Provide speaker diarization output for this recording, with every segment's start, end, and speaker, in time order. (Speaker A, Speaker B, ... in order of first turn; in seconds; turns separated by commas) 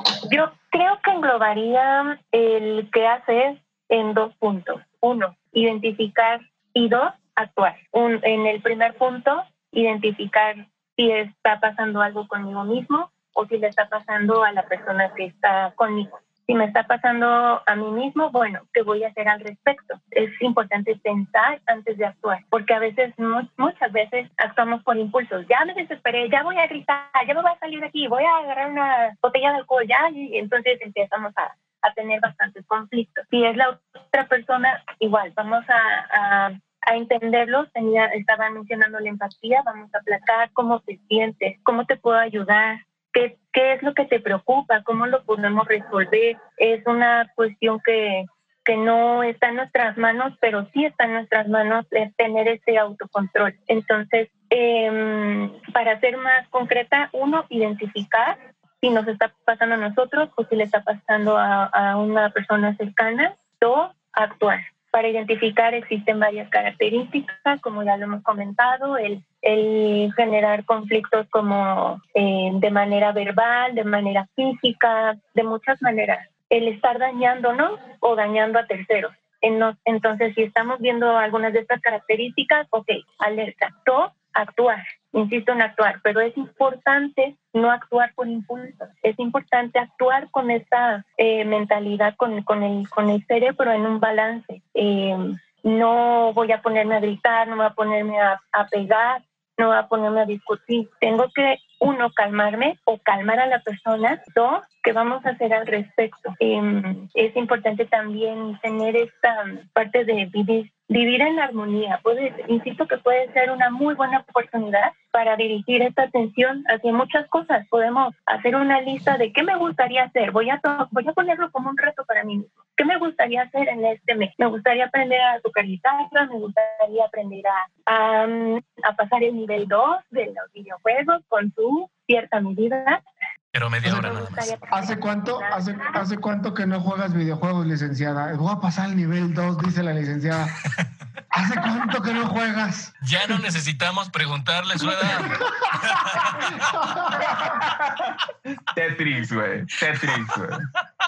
Speaker A: 0.3-133.0, Speaker B: 133.5-134.6, Speaker A: 133.8-136.1, Speaker C: 133.8-140.6, Speaker C: 141.3-143.4, Speaker B: 143.0-146.8, Speaker C: 145.0-147.6, Speaker D: 147.4-148.2, Speaker D: 148.7-150.7, Speaker B: 150.0-150.4